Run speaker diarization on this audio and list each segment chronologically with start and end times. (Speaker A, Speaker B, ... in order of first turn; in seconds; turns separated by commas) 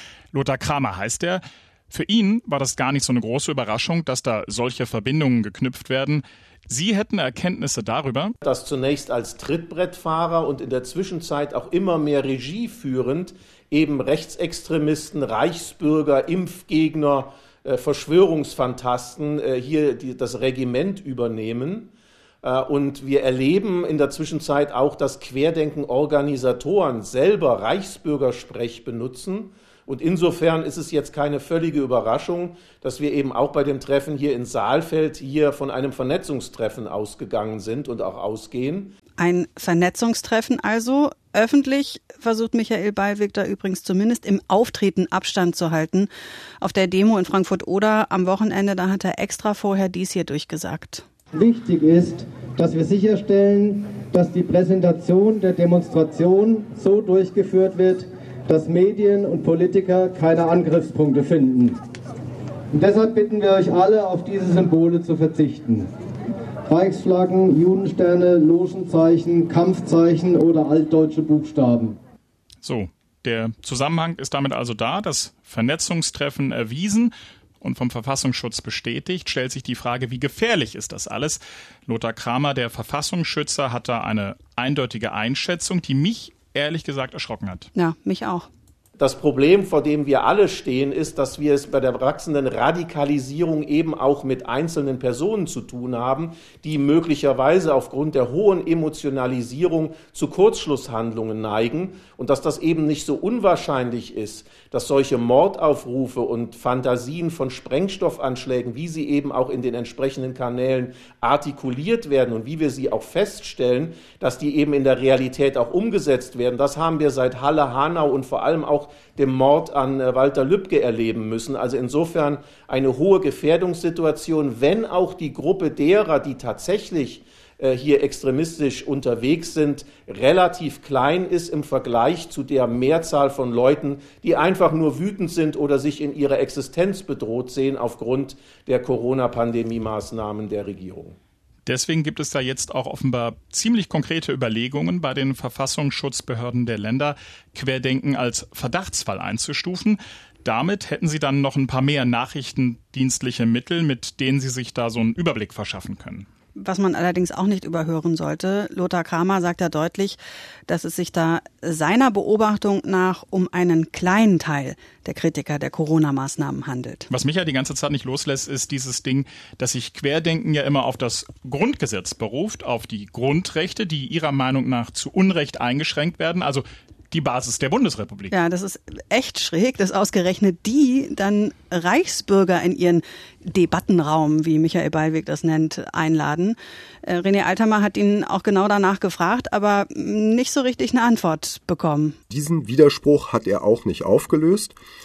Speaker A: 0.3-8.3, Speaker B: 8.4-21.9, Speaker B: 22.4-38.9, Speaker C: 39.2-46.1, Speaker C: 46.6-51.0, Speaker D: 51.3-61.8, Speaker D: 62.7-65.9, Speaker D: 66.7-72.0, Speaker A: 72.6-87.7, Speaker C: 87.7-88.5, Speaker B: 89.0-141.2, Speaker A: 141.7-156.2, Speaker C: 156.6-167.1, Speaker A: 167.1-178.3, Speaker C: 178.3-192.2, Speaker E: 192.3-194.7